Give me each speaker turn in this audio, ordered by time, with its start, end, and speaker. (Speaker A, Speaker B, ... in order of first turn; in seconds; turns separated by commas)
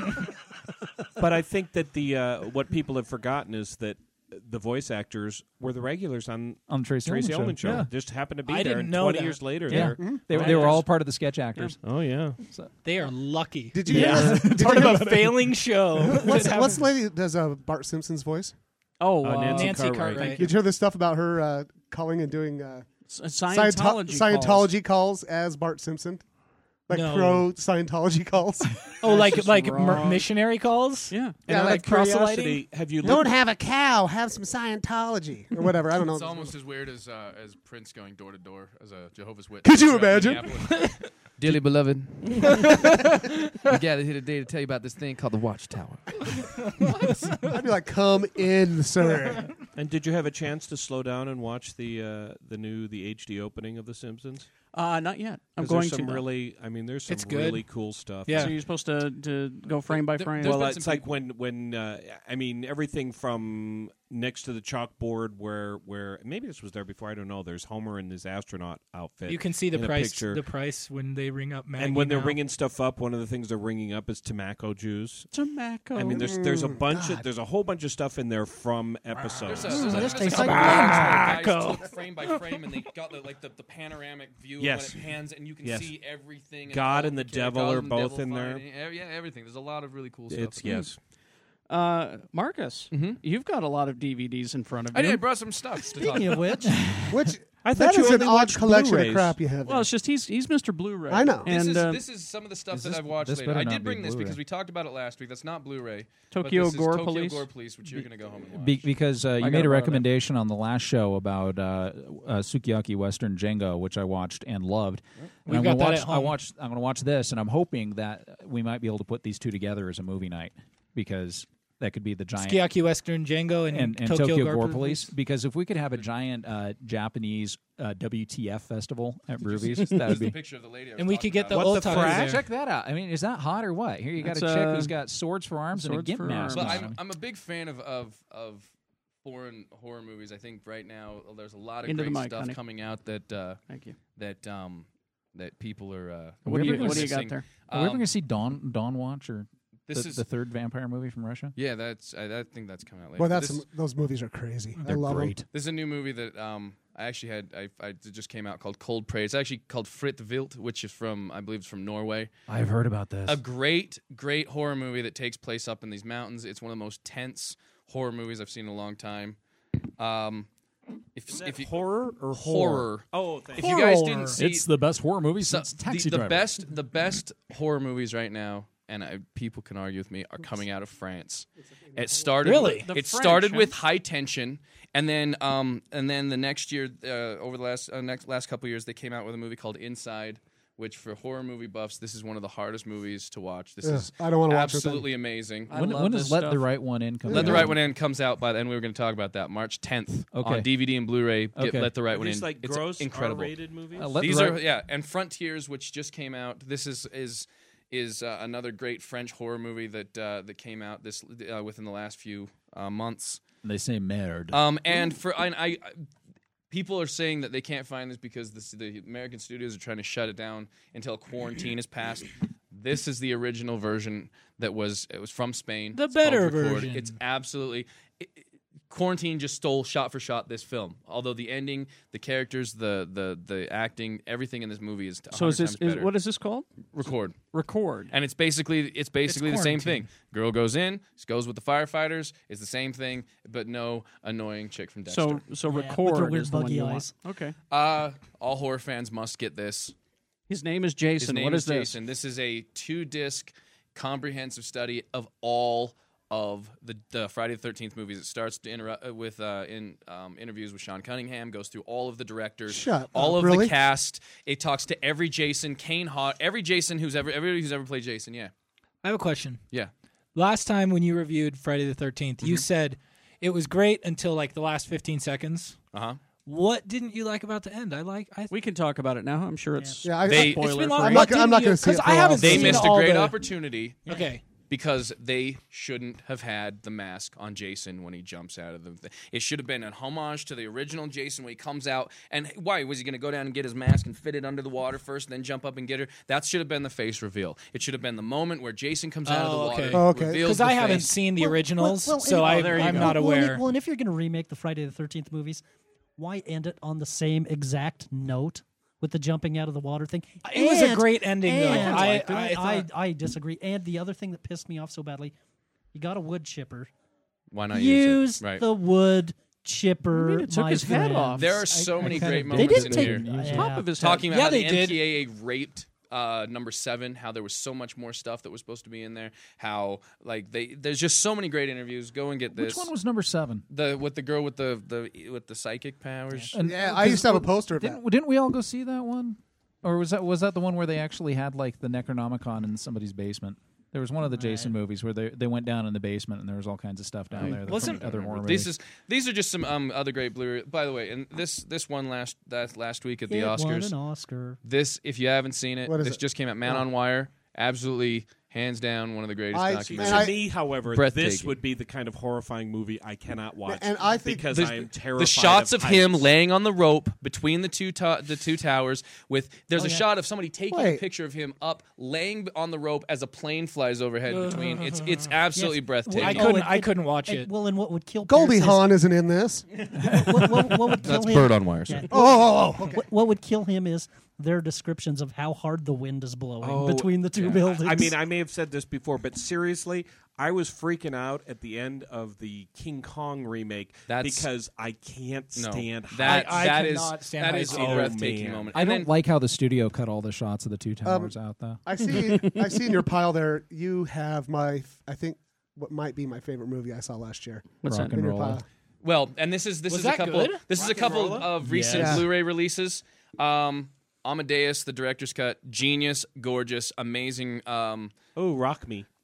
Speaker A: 1.2-10.9, Speaker B: 6.7-7.9, Speaker C: 8.4-9.8, Speaker B: 9.7-12.7, Speaker D: 9.8-10.2, Speaker E: 10.3-10.8, Speaker A: 11.8-12.4, Speaker C: 12.8-16.8, Speaker D: 13.8-18.5, Speaker E: 19.0-20.4, Speaker A: 19.2-20.4, Speaker C: 19.5-20.4, Speaker D: 20.3-22.9, Speaker E: 23.1-24.7, Speaker D: 23.5-26.2, Speaker D: 26.9-28.9, Speaker C: 26.9-27.5, Speaker C: 29.0-32.6, Speaker E: 29.1-30.3, Speaker E: 31.1-31.4, Speaker A: 31.5-33.3, Speaker D: 31.5-31.9, Speaker D: 33.0-36.5, Speaker F: 36.0-43.1, Speaker D: 39.6-40.7, Speaker C: 40.7-41.0, Speaker F: 43.6-46.8, Speaker C: 46.8-47.5, Speaker D: 47.5-49.6, Speaker A: 49.8-54.5, Speaker E: 54.7-56.2, Speaker A: 55.6-58.5, Speaker C: 57.1-58.5, Speaker E: 58.3-60.6, Speaker F: 60.2-61.1, Speaker A: 60.4-70.5, Speaker C: 69.3-72.4, Speaker A: 71.8-75.3, Speaker E: 75.3-76.3, Speaker A: 76.0-79.8, Speaker D: 76.1-77.3, Speaker F: 79.5-90.9, Speaker C: 79.7-82.4, Speaker G: 79.8-81.3, Speaker A: 84.6-86.0, Speaker A: 86.7-88.6, Speaker A: 90.3-91.0, Speaker E: 91.7-95.2, Speaker F: 92.9-93.2, Speaker F: 94.9-96.7, Speaker G: 95.9-96.8, Speaker D: 97.1-99.9, Speaker A: 97.6-99.4, Speaker E: 99.7-102.0, Speaker D: 101.1-101.5, Speaker F: 101.5-108.9, Speaker B: 102.7-104.4, Speaker E: 106.3-107.5, Speaker B: 108.5-122.6, Speaker E: 109.4-110.1, Speaker C: 115.5-116.4, Speaker C: 122.4-125.1, Speaker B: 123.7-130.4, Speaker F: 129.5-132.2, Speaker C: 131.0-132.4, Speaker A: 131.5-132.4, Speaker B: 131.8-137.0, Speaker E: 134.2-134.9, Speaker E: 135.7-136.8, Speaker F: 136.5-138.7, Speaker F: 139.2-143.6, Speaker E: 141.9-142.6, Speaker E: 143.7-144.0, Speaker F: 144.2-148.1, Speaker E: 146.5-147.5, Speaker B: 146.5-151.5, Speaker F: 149.9-150.2, Speaker F: 151.6-153.6, Speaker D: 153.2-155.3, Speaker B: 154.8-155.5, Speaker F: 155.5-162.3, Speaker B: 162.5-163.4, Speaker F: 163.3-169.4, Speaker F: 170.0-170.5, Speaker F: 171.2-174.7, Speaker A: 171.3-173.8, Speaker C: 173.6-174.4, Speaker B: 174.3-176.5, Speaker F: 175.4-195.7, Speaker D: 181.9-182.3, Speaker C: 182.4-182.9, Speaker E: 182.7-183.8, Speaker D: 193.8-195.1, Speaker E: 195.7-196.7, Speaker B: 195.7-197.8, Speaker D: 197.3-197.8, Speaker F: 197.3-203.6, Speaker B: 200.3-200.7, Speaker B: 201.6-201.9, Speaker A: 202.1-204.2, Speaker B: 204.0-204.6, Speaker F: 204.2-213.4, Speaker B: 213.6-214.6, Speaker F: 214.5-216.0, Speaker F: 216.7-228.4, Speaker C: 225.9-227.2, Speaker F: 228.9-236.1, Speaker E: 235.3-236.7, Speaker F: 236.9-237.4, Speaker E: 237.5-238.1, Speaker F: 238.1-245.4, Speaker C: 239.3-240.1, Speaker E: 245.1-247.6, Speaker G: 245.6-247.1, Speaker F: 247.7-249.9, Speaker E: 250.5-251.9, Speaker F: 251.2-268.5, Speaker D: 262.7-263.7, Speaker C: 269.0-269.6, Speaker C: 270.4-275.8, Speaker F: 275.9-276.2, Speaker C: 276.5-278.5, Speaker E: 278.5-281.3, Speaker G: 279.8-280.1, Speaker D: 280.0-283.0, Speaker F: 280.2-280.6, Speaker C: 280.3-283.4, Speaker F: 282.4-301.1, Speaker C: 284.1-284.4, Speaker C: 299.2-303.6, Speaker D: 299.9-301.2, Speaker G: 301.2-305.6, Speaker E: 302.4-303.1, Speaker G: 306.2-315.4, Speaker C: 310.4-312.9, Speaker E: 311.7-312.1, Speaker G: 315.9-316.9, Speaker F: 317.5-318.7, Speaker G: 317.7-324.0, Speaker E: 320.1-321.5, Speaker F: 321.4-323.3, Speaker B: 321.8-323.8, Speaker E: 323.3-324.3, Speaker F: 324.0-332.9, Speaker C: 324.3-325.0, Speaker B: 332.5-333.6, Speaker F: 333.7-336.5, Speaker B: 336.5-348.7, Speaker D: 336.6-338.0, Speaker F: 347.3-354.0, Speaker C: 347.5-348.1, Speaker G: 353.3-354.6, Speaker F: 354.6-361.6, Speaker D: 355.9-356.9, Speaker D: 359.5-360.4, Speaker A: 359.9-366.3, Speaker D: 363.7-364.5, Speaker F: 364.5-376.5, Speaker G: 369.8-370.1, Speaker D: 370.7-371.0, Speaker C: 374.3-375.2, Speaker G: 375.5-379.0, Speaker C: 376.1-377.5, Speaker D: 378.3-379.7, Speaker G: 380.0-388.2, Speaker F: 380.0-382.1, Speaker D: 382.1-383.1, Speaker A: 386.6-396.7, Speaker F: 387.3-387.6, Speaker F: 394.1-394.5, Speaker F: 395.6-399.1, Speaker C: 396.2-398.2, Speaker A: 397.6-398.8, Speaker B: 398.7-401.8, Speaker D: 401.1-408.6, Speaker E: 407.8-408.2, Speaker B: 407.9-408.6, Speaker F: 409.0-418.1, Speaker C: 409.9-410.7, Speaker A: 410.7-411.5, Speaker B: 411.7-412.0, Speaker D: 411.8-412.3, Speaker A: 418.4-419.1